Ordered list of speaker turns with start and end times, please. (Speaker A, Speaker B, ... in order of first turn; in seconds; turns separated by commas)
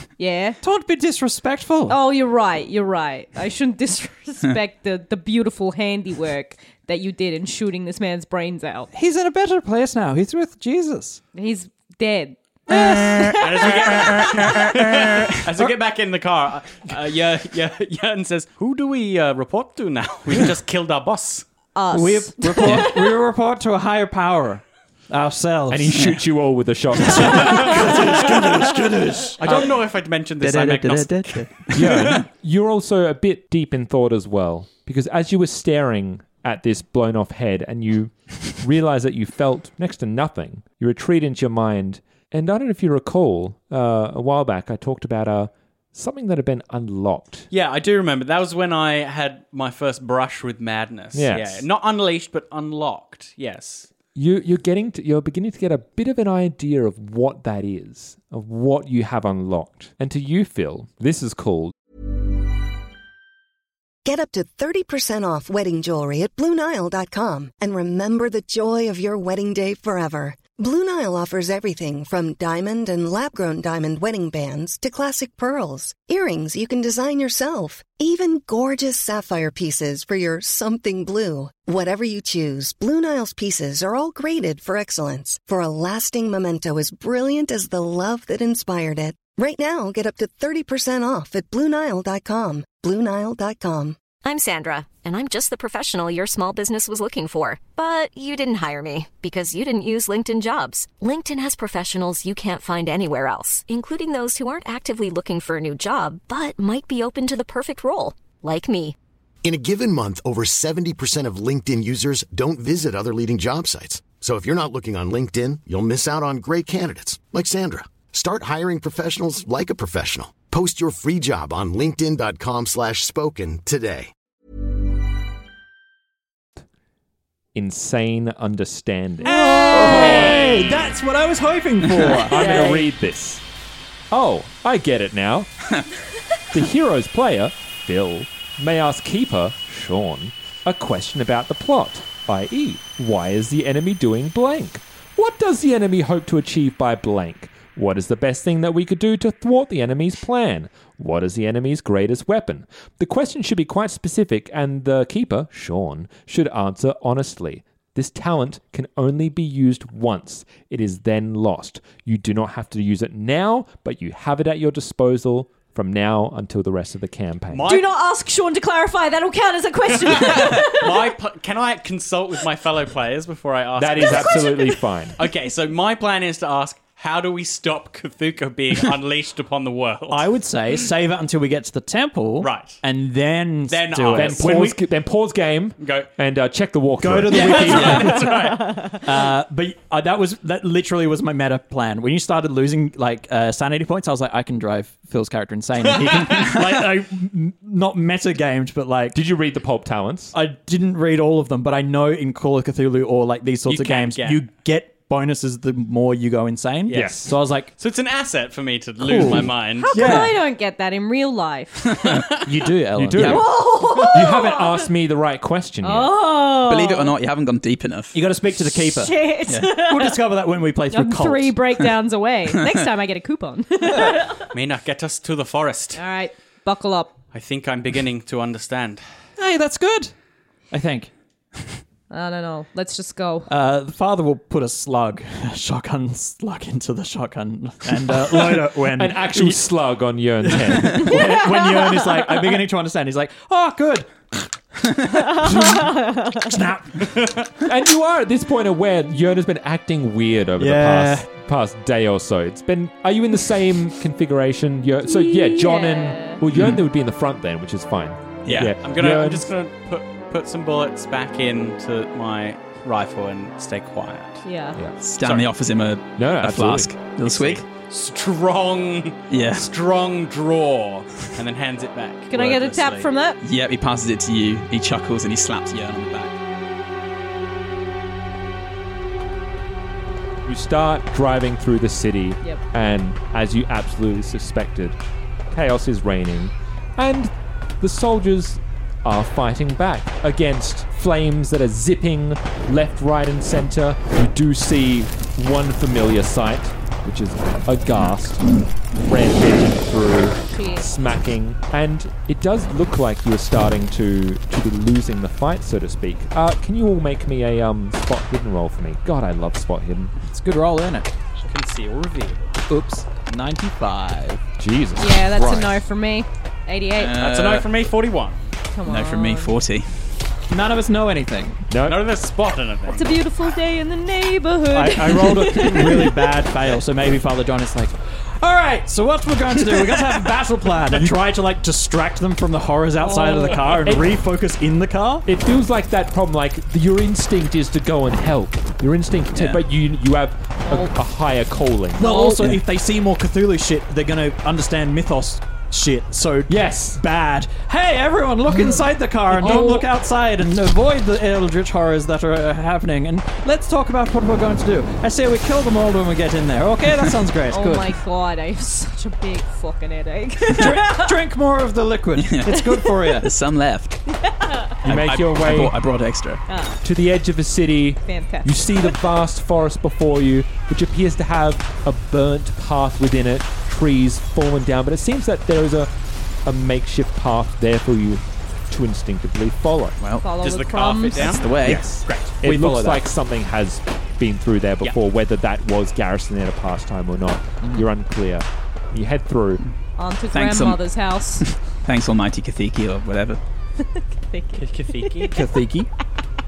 Speaker A: 0.2-0.6, Speaker B: 0.6-2.0, Speaker A: 1.9-8.9, Speaker B: 8.9-11.2, Speaker A: 11.3-14.6, Speaker C: 13.4-21.5, Speaker A: 21.7-23.2, Speaker B: 21.9-26.1, Speaker D: 25.7-27.8, Speaker B: 27.0-29.6, Speaker C: 29.4-31.5, Speaker E: 30.4-32.2, Speaker D: 31.7-47.5, Speaker C: 47.5-53.9, Speaker D: 51.1-51.7, Speaker D: 54.1-61.7, Speaker F: 64.0-94.0, Speaker G: 94.2-109.0, Speaker H: 109.4-124.1, Speaker D: 127.5-130.9, Speaker B: 129.2-132.8, Speaker A: 129.4-130.4, Speaker D: 132.3-133.4, Speaker A: 132.3-132.8, Speaker D: 134.1-135.7, Speaker D: 136.5-167.7, Speaker C: 167.5-167.9, Speaker A: 167.6-171.2, Speaker C: 169.9-174.6, Speaker D: 173.8-175.2, Speaker A: 174.0-174.8, Speaker C: 175.2-180.3, Speaker B: 180.1-184.8, Speaker C: 182.4-182.8, Speaker C: 183.7-184.6, Speaker D: 184.1-188.0, Speaker C: 185.8-186.1, Speaker B: 187.0-188.4, Speaker C: 187.3-188.9, Speaker A: 188.1-188.9, Speaker B: 189.0-199.2, Speaker C: 195.9-196.6, Speaker D: 199.1-200.3, Speaker B: 200.3-207.7, Speaker C: 203.7-204.4, Speaker C: 206.9-210.2, Speaker D: 206.9-207.3, Speaker B: 209.0-210.4, Speaker A: 209.2-212.3, Speaker B: 212.4-213.4, Speaker D: 212.9-216.1, Speaker E: 213.2-213.5, Speaker A: 213.2-214.9, Speaker A: 215.8-217.2, Speaker E: 216.7-218.2, Speaker B: 218.1-219.2, Speaker A: 218.8-220.2, Speaker E: 219.5-219.7, Speaker B: 219.7-221.6, Speaker A: 220.9-224.5, Speaker C: 224.5-226.0, Speaker A: 225.9-227.2, Speaker C: 227.3-229.0, Speaker B: 229.4-230.1, Speaker B: 230.7-231.1, Speaker A: 232.1-233.5, Speaker B: 233.5-239.6, Speaker D: 238.3-241.2, Speaker B: 240.4-247.1, Speaker A: 241.1-242.4, Speaker A: 245.3-246.6, Speaker C: 247.2-247.5, Speaker D: 247.6-259.5, Speaker B: 250.6-251.3, Speaker A: 255.0-256.4, Speaker E: 256.5-256.8, Speaker E: 258.4-258.7, Speaker C: 258.5-264.4, Speaker A: 264.4-264.8, Speaker E: 265.0-267.6, Speaker C: 265.2-265.5, Speaker D: 266.2-266.9, Speaker C: 267.3-273.1, Speaker E: 269.3-269.7, Speaker A: 272.3-273.4, Speaker E: 273.4-276.4, Speaker D: 280.4-285.0, Speaker D: 285.5-310.1, Speaker A: 300.5-301.0, Speaker B: 310.2-311.1, Speaker C: 311.4-312.6, Speaker B: 312.7-314.4, Speaker D: 314.6-315.8, Speaker A: 315.0-317.2, Speaker E: 317.0-317.7, Speaker C: 317.2-318.5, Speaker A: 318.7-319.6, Speaker E: 318.9-319.9, Speaker B: 320.5-321.6, Speaker D: 321.7-322.0, Speaker C: 321.9-323.2, Speaker A: 322.9-326.3, Speaker B: 324.7-335.3, Speaker A: 333.0-334.0, Speaker D: 335.3-342.5, Speaker A: 340.6-340.9, Speaker B: 342.0-357.9, Speaker A: 342.1-342.4, Speaker D: 346.5-347.0, Speaker A: 349.4-349.9, Speaker A: 357.5-361.2, Speaker B: 360.6-363.3, Speaker E: 362.2-364.0, Speaker A: 362.5-363.2, Speaker A: 364.1-364.8, Speaker D: 364.8-365.8, Speaker E: 364.8-366.4, Speaker A: 366.5-366.8, Speaker D: 366.8-375.9, Speaker A: 368.1-368.9, Speaker D: 376.4-380.0, Speaker E: 380.0-380.3, Speaker A: 380.2-381.5, Speaker C: 380.4-381.5, Speaker E: 381.2-381.9, Speaker D: 381.6-389.6, Speaker B: 382.1-383.0, Speaker A: 390.0-391.5, Speaker E: 390.3-390.8, Speaker E: 391.4-393.4, Speaker A: 393.8-395.4, Speaker C: 394.6-395.4, Speaker B: 395.3-395.9